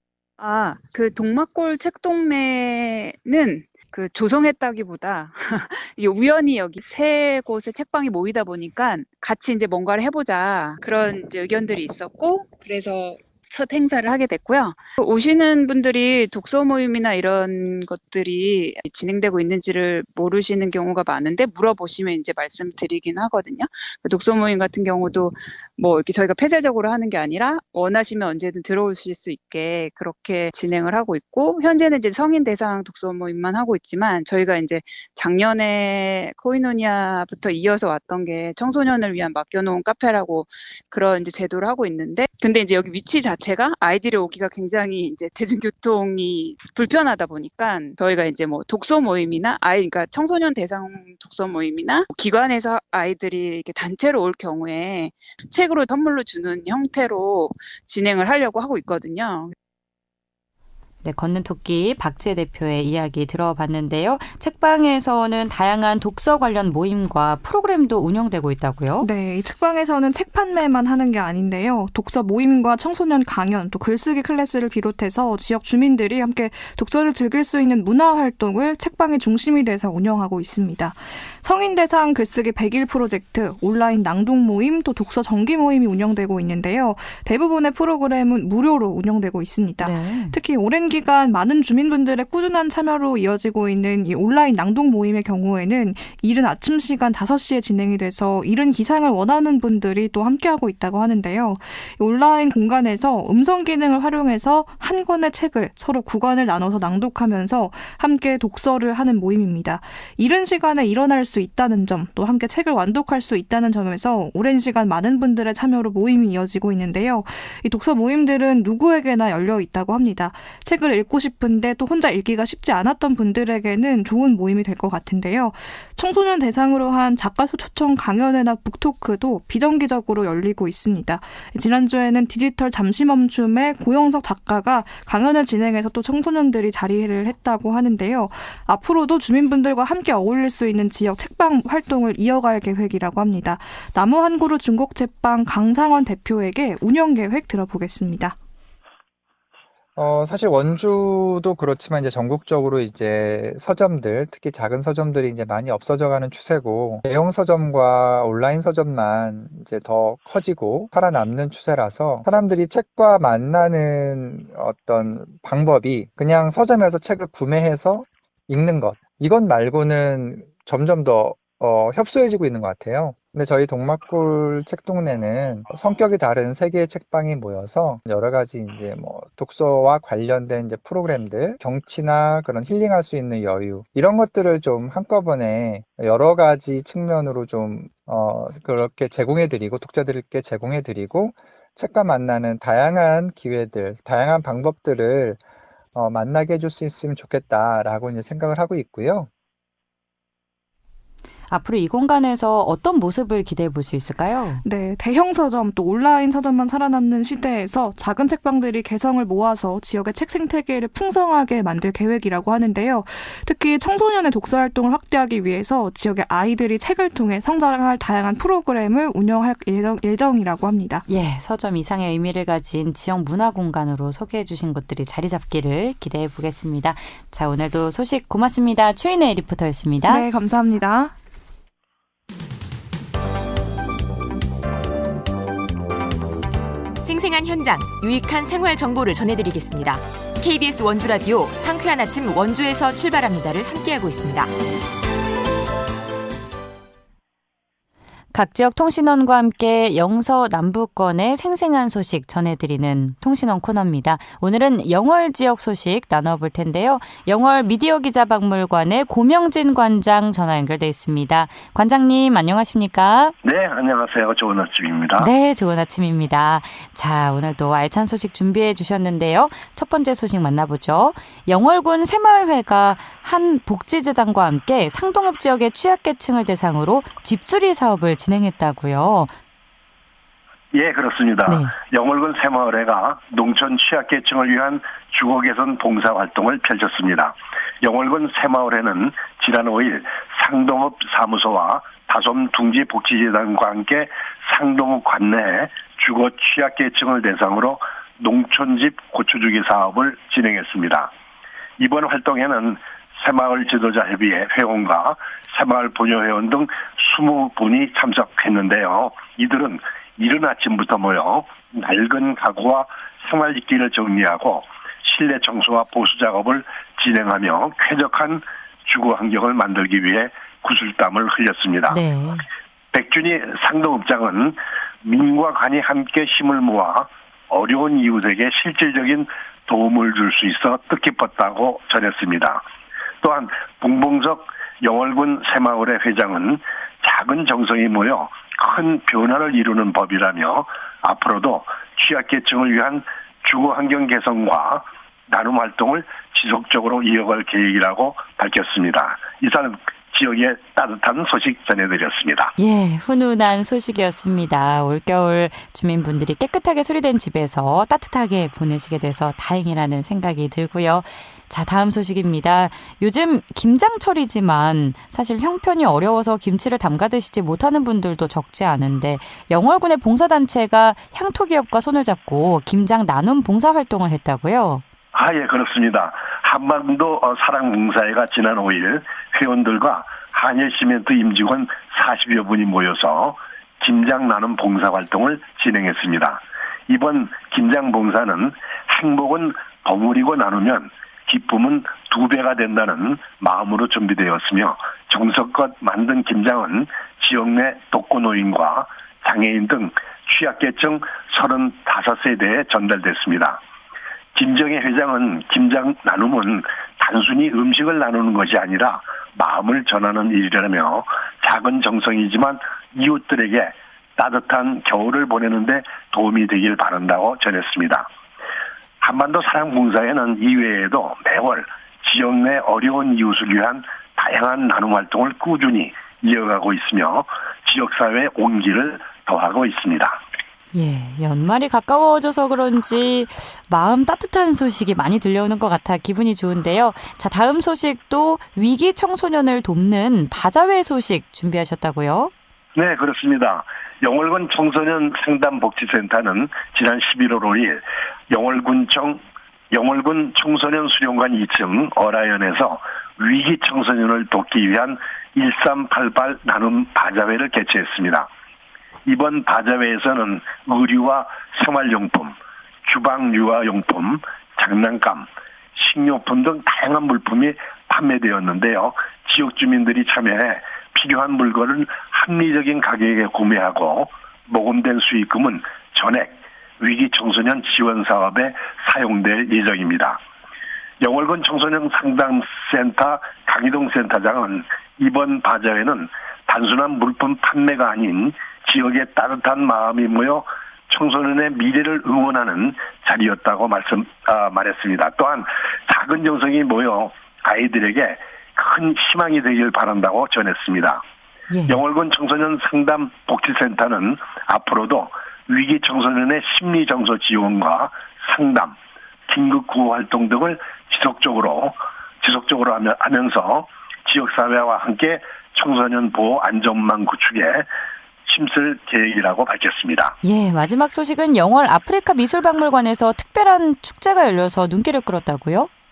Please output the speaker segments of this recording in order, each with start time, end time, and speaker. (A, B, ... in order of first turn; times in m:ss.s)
0:00.4-0:59.5 A
1:01.0-1:09.1 B
1:09.0-2:28.4 C
1:29.8-1:30.4 B
2:30.0-3:15.4 D
3:15.9-3:19.3 D
3:21.5-3:24.6 B
3:24.6-3:41.0 C
3:41.1-3:50.2 B
3:50.0-3:51.1 C
3:57.0-4:04.5 E
4:08.3-4:23.3 B
4:23.4-4:25.3 F
4:25.2-4:39.3 B
4:40.7-5:01.1 F
4:41.5-4:41.7 B
5:01.8-5:22.0 F
5:21.9-5:22.4 B
5:22.9-5:32.6 F
5:33.2-5:52.5 F
5:52.6-6:14.8 B
6:15.1-6:43.6 F
6:44.3-6:58.1 F
6:59.0-7:10.2 F
7:10.7-7:22.3 B
7:22.7-7:29.2 F
7:29.7-7:38.3 F
7:39.0-8:00.2 F
8:01.0-8:21.0 F
8:21.7-8:28.8 F
8:29.3-8:37.6 F
8:38.2-8:40.2 F
8:40.2-8:45.7 B